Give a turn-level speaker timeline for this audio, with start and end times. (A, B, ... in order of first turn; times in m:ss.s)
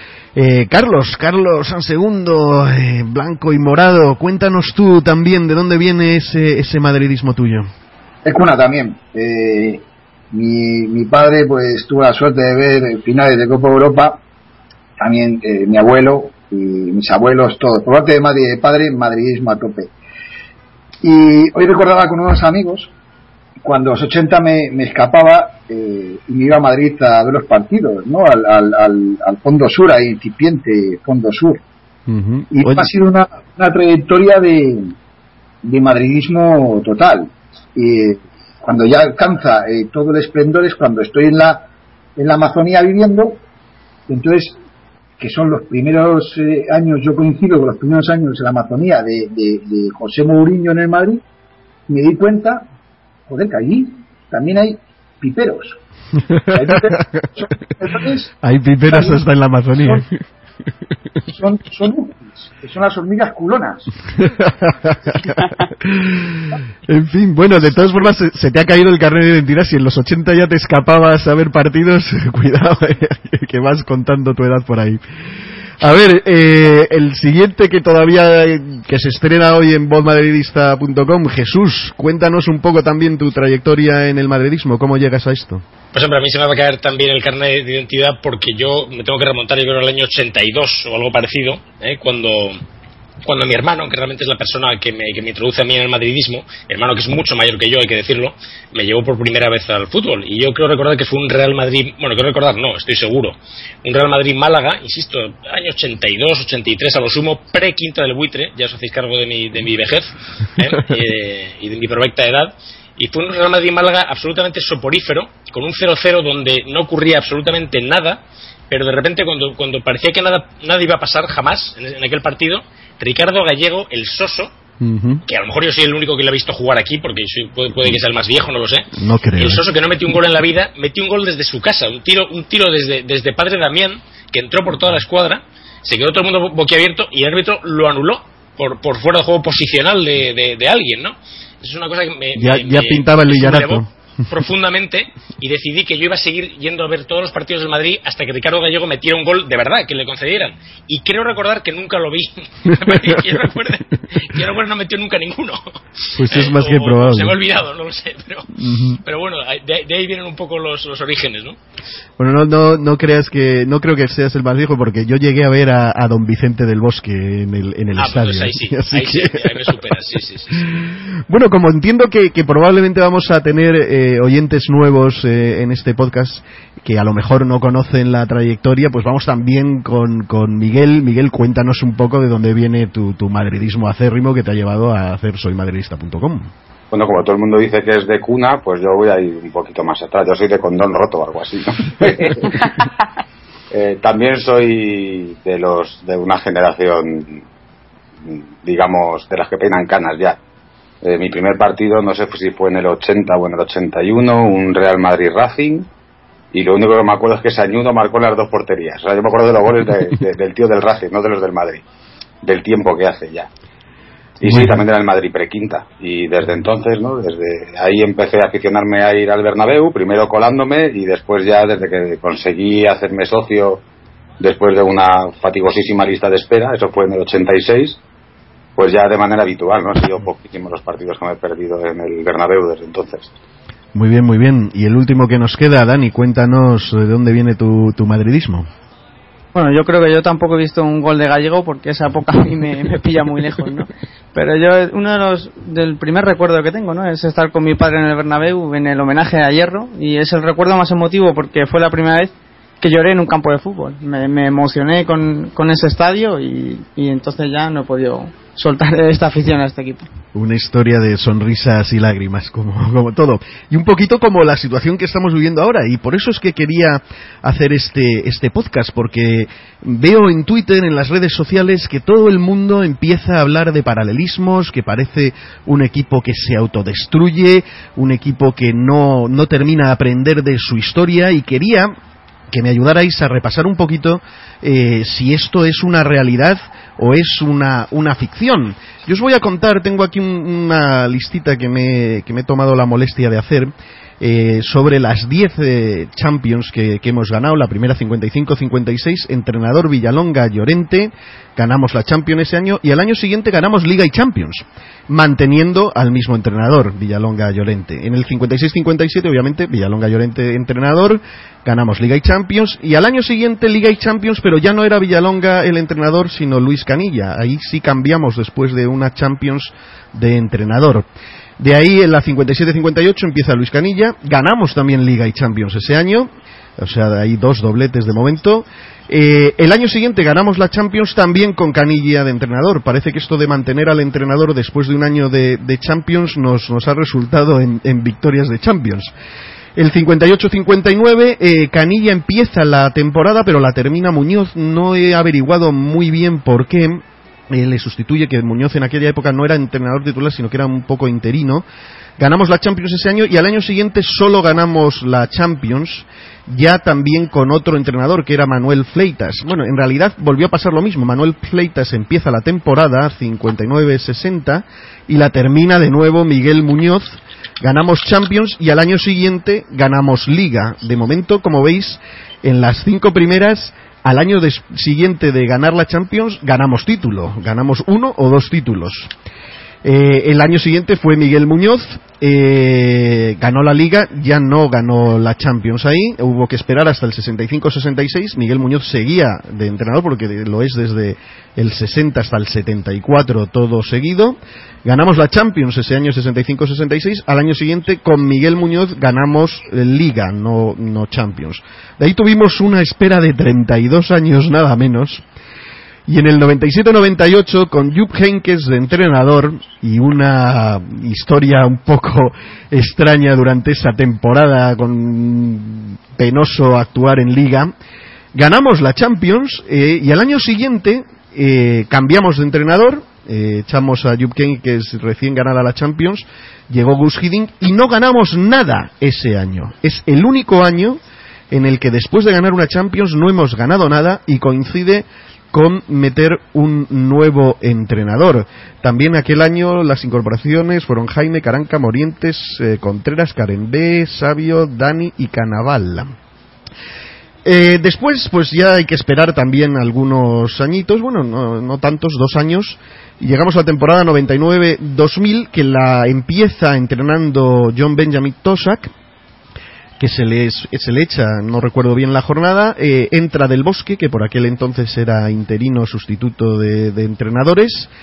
0:00.3-0:07.7 A
0:08.2-0:14.2 B
0:15.0-0:19.9 B
0:21.0-0:22.9 B
0:23.6-0:31.6 B
0:32.1-0:32.9 A
0:32.5-0:34.9 B
0:35.6-0:41.6 B
0:42.2-0:43.4 B
0:44.1-0:44.6 B
0:45.2-0:51.2 B
0:51.9-0:52.6 B
0:53.3-0:55.8 B
0:56.3-0:57.0 A
0:56.5-0:58.3 B
0:58.4-1:00.1 A
0:58.9-0:59.2 B
1:01.3-1:03.9 B
1:04.2-1:15.0 A
1:15.8-1:25.6 A
1:25.9-1:32.6 C
1:33.2-2:04.5 C
2:04.8-2:05.2 A
2:05.3-2:35.6 C
2:09.0-2:09.6 A
2:22.4-2:23.9 A
2:32.7-2:33.3 A
2:36.1-2:37.4 A
2:36.2-2:38.5 C
2:38.5-2:39.0 A
2:39.0-2:41.6 C
2:42.2-2:49.8 A
2:48.0-2:50.7 C
2:50.6-3:06.5 A
3:06.9-3:12.6 D
3:13.7-3:17.4 D
3:18.2-3:20.4 D
3:21.0-3:25.9 D
3:26.5-3:31.8 D
3:32.4-3:33.5 D
3:34.4-3:43.8 D
3:34.4-3:34.8 A
3:44.4-3:48.0 D
3:48.8-3:53.3 D
3:53.9-3:58.7 A
3:59.5-4:20.1 E
4:20.3-4:41.9 A
4:42.5-5:21.1 A
5:21.6-5:39.1 A
5:39.8-5:51.6 A
5:52.2-6:19.1 A
6:19.8-6:45.2 A
6:46.1-6:57.7 A
6:58.3-7:11.0 A
7:11.5-7:26.1 A
7:27.4-7:38.9 A
7:40.0-7:47.9 A